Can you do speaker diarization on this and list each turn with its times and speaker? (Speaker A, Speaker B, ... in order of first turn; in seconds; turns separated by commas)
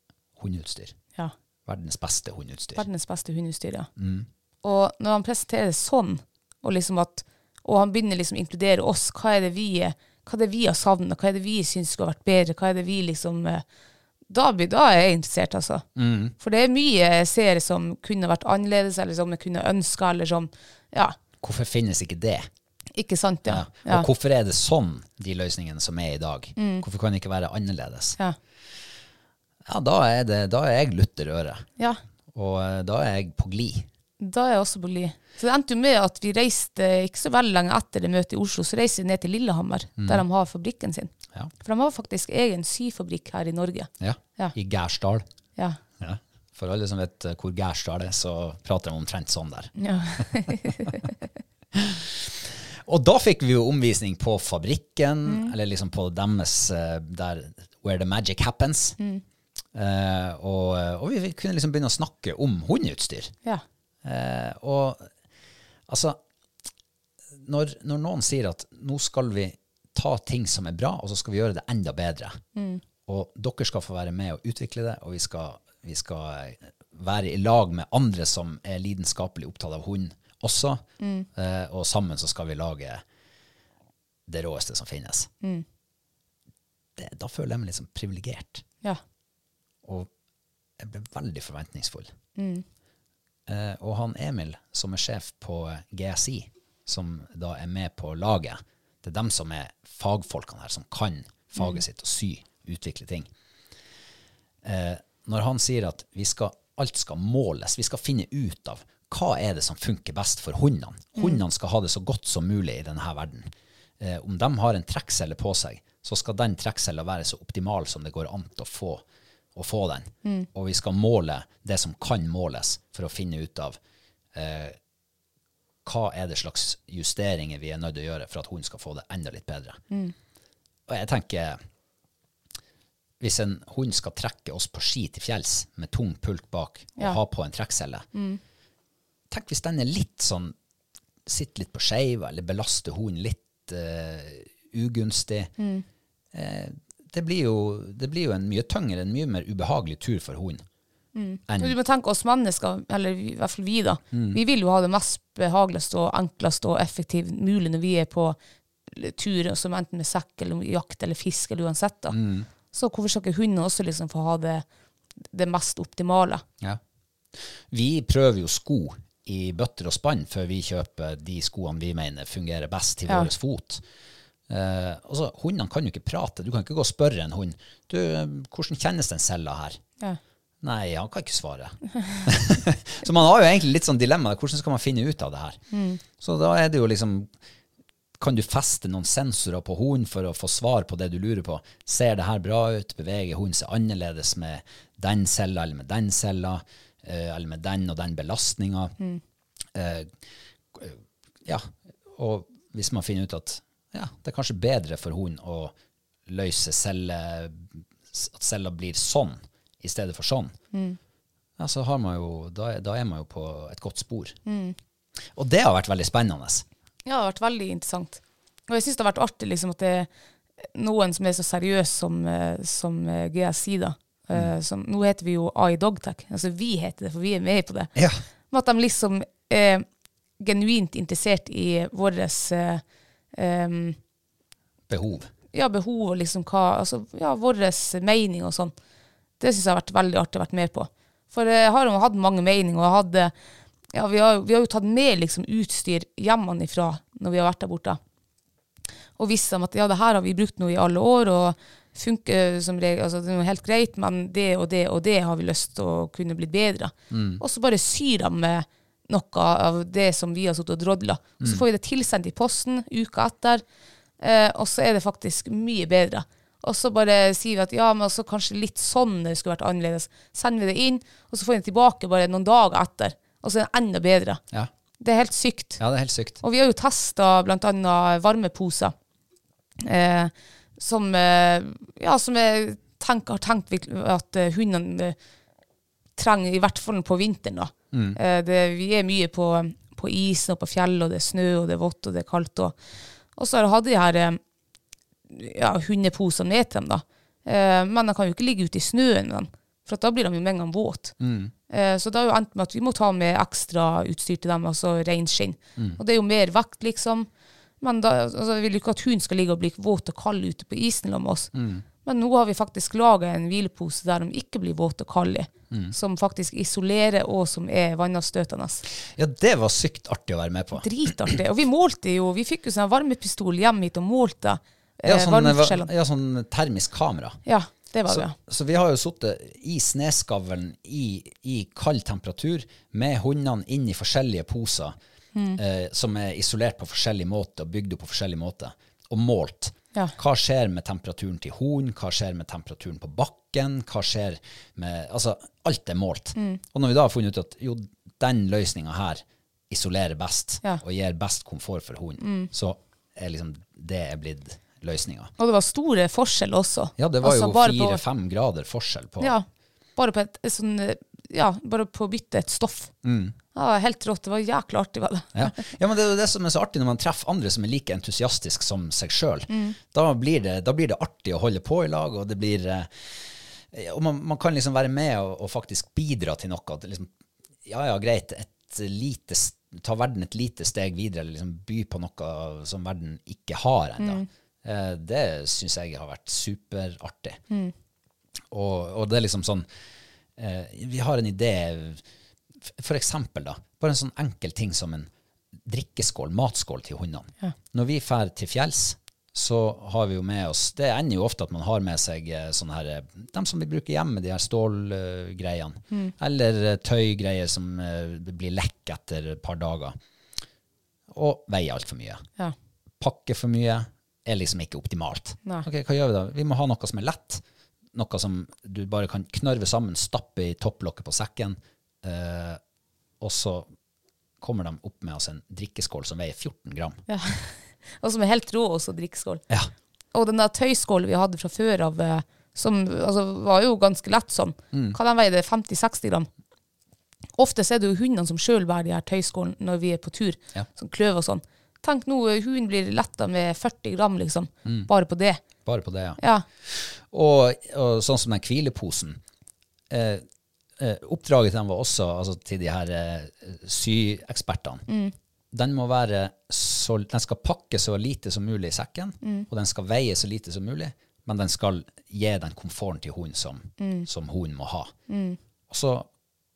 Speaker A: 0.4-1.0, Speaker A: 1.6-2.9, Speaker B: 2.8-3.9, Speaker A: 4.0-4.3, Speaker B: 4.6-13.6, Speaker B: 14.3-15.8, Speaker A: 15.9-16.3, Speaker B: 16.4-21.1, Speaker A: 21.4-22.5, Speaker B: 22.9-24.1, Speaker A: 23.4-28.2, Speaker B: 26.6-26.8, Speaker A: 29.6-31.6, Speaker A: 32.3-33.9, Speaker B: 34.2-41.1, Speaker A: 40.0-40.2, Speaker B: 41.6-44.5, Speaker A: 44.0-45.2, Speaker A: 46.0-50.2, Speaker B: 49.8-51.1, Speaker A: 51.7-59.0, Speaker B: 55.2-55.5, Speaker A: 59.7-63.3, Speaker A: 64.0-65.1, Speaker A: 65.9-66.2, Speaker A: 67.4-72.4, Speaker B: 72.5-72.8, Speaker A: 73.1-83.0, Speaker B: 81.0-81.3, Speaker A: 84.3-85.3, Speaker A: 87.0-88.6, Speaker A: 89.8-90.1, Speaker A: 90.8-92.1, Speaker B: 92.3-92.6, Speaker A: 93.5-103.3, Speaker A: 104.6-119.0, Speaker A: 119.5-123.8, Speaker A: 124.3-124.8, Speaker A: 125.8-129.8, Speaker A: 130.9-131.6, Speaker A: 133.2-138.1, Speaker B: 138.1-138.4, Speaker A: 139.3-140.5, Speaker A: 141.2-145.5, Speaker B: 145.6-145.8, Speaker A: 146.3-150.6, Speaker B: 151.1-158.4, Speaker A: 151.5-151.8, Speaker A: 154.1-154.4, Speaker B: 158.9-162.2, Speaker A: 162.1-162.5, Speaker B: 162.7-164.6, Speaker B: 165.3-166.4, Speaker A: 167.7-173.8, Speaker A: 174.5-179.8, Speaker A: 180.6-185.6, Speaker B: 185.7-186.0, Speaker A: 186.2-187.3, Speaker A: 188.2-198.9, Speaker A: 199.7-200.1, Speaker A: 200.7-205.7, Speaker A: 206.3-210.5, Speaker B: 210.7-211.0, Speaker A: 211.6-214.4, Speaker B: 214.4-214.7, Speaker A: 215.3-216.6, Speaker B: 217.1-220.1, Speaker B: 220.6-227.9, Speaker B: 228.5-229.8, Speaker B: 230.4-232.8, Speaker B: 233.3-234.0, Speaker A: 234.9-235.3, Speaker B: 235.5-238.7, Speaker B: 239.4-243.3, Speaker B: 243.9-248.0, Speaker B: 249.2-263.6, Speaker A: 257.1-257.4, Speaker B: 264.2-274.4, Speaker B: 275.0-275.8, Speaker A: 275.8-276.4, Speaker B: 276.4-278.9, Speaker B: 279.8-285.1, Speaker B: 286.2-292.8, Speaker A: 287.9-288.2, Speaker B: 293.4-294.4, Speaker B: 295.3-301.1, Speaker A: 301.2-301.5, Speaker B: 301.7-307.3, Speaker B: 307.8-311.5, Speaker A: 311.5-311.8, Speaker B: 312.0-318.8, Speaker A: 319.1-321.3, Speaker B: 320.8-325.9, Speaker A: 325.0-327.4, Speaker B: 327.4-328.3, Speaker A: 328.1-334.9, Speaker A: 335.6-355.3, Speaker B: 352.2-352.5, Speaker B: 355.4-358.0, Speaker A: 357.0-359.3, Speaker B: 359.2-359.4, Speaker B: 359.9-362.9, Speaker A: 363.0-363.4, Speaker B: 363.5-365.5, Speaker A: 365.3-377.1, Speaker B: 369.5-369.8, Speaker A: 377.6-387.4, Speaker B: 384.0-384.3, Speaker A: 388.5-389.6, Speaker A: 390.4-392.0, Speaker A: 392.6-395.1, Speaker A: 395.6-409.9, Speaker A: 411.1-412.2, Speaker A: 413.0-422.6, Speaker A: 423.2-423.7, Speaker A: 424.4-427.0, Speaker B: 427.1-429.4, Speaker B: 430.1-436.3, Speaker A: 434.7-435.0, Speaker B: 437.4-445.4, Speaker A: 444.6-444.9, Speaker A: 445.6-449.2, Speaker B: 446.2-446.4, Speaker A: 449.9-450.2, Speaker A: 450.8-454.9, Speaker B: 454.9-455.1, Speaker A: 455.5-464.9, Speaker B: 463.8-464.1, Speaker B: 465.1-465.4, Speaker A: 465.7-466.1